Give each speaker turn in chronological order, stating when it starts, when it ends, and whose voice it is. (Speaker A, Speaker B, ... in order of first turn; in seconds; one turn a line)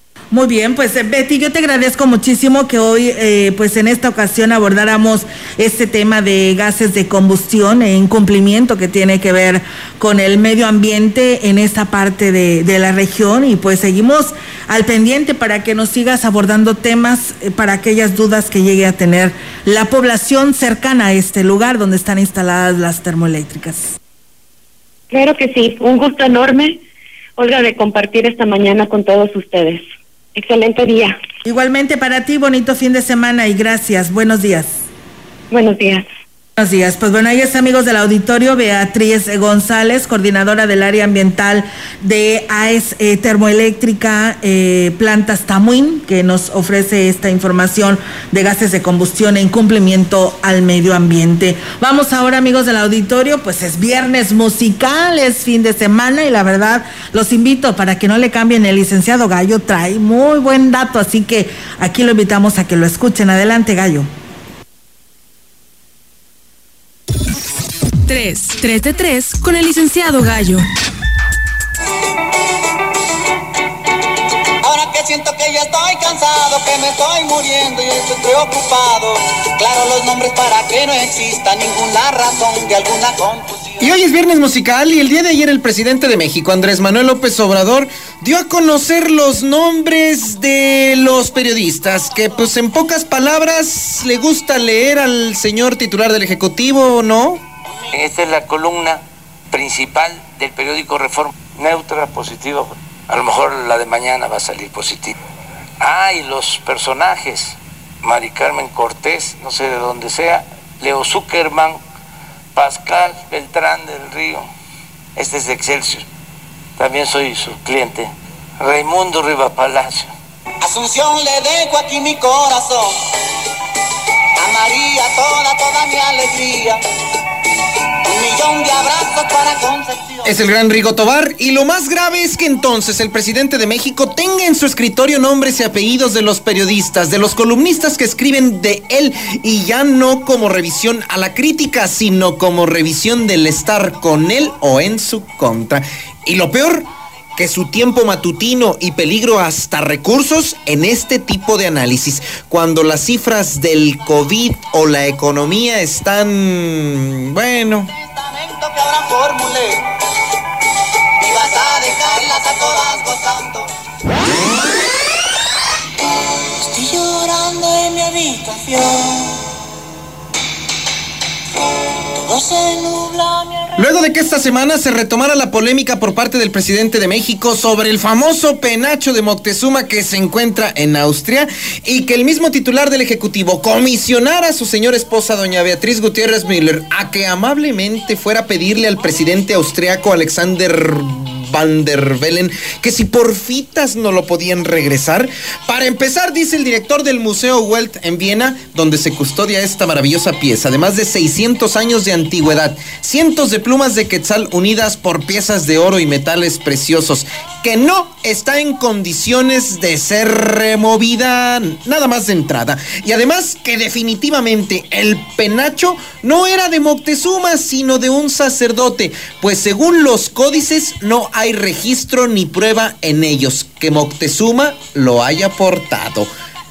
Speaker A: 0.3-23.9
Speaker B: 25.1-26.8
Speaker B: 27.4-29.8
Speaker B: 30.4-31.2
Speaker A: 31.5-34.8
Speaker B: 35.5-36.0
Speaker A: 36.6-64.1
Speaker C: 68.1-70.7
Speaker D: 74.6-83.9
Speaker E: 83.8-97.4
Speaker F: 97.9-105.1
Speaker F: 105.8-111.8
Speaker F: 112.5-114.5
Speaker F: 115.2-116.0
Speaker F: 116.8-120.1
Speaker D: 120.6-123.0
Speaker D: 124.4-126.8
Speaker D: 128.0-130.3
Speaker E: 130.2-157.9
Speaker D: 158.3-159.8
Speaker D: 161.2-163.7
Speaker D: 166.6-169.0
Speaker D: 172.2-173.4
Speaker E: 173.8-226.3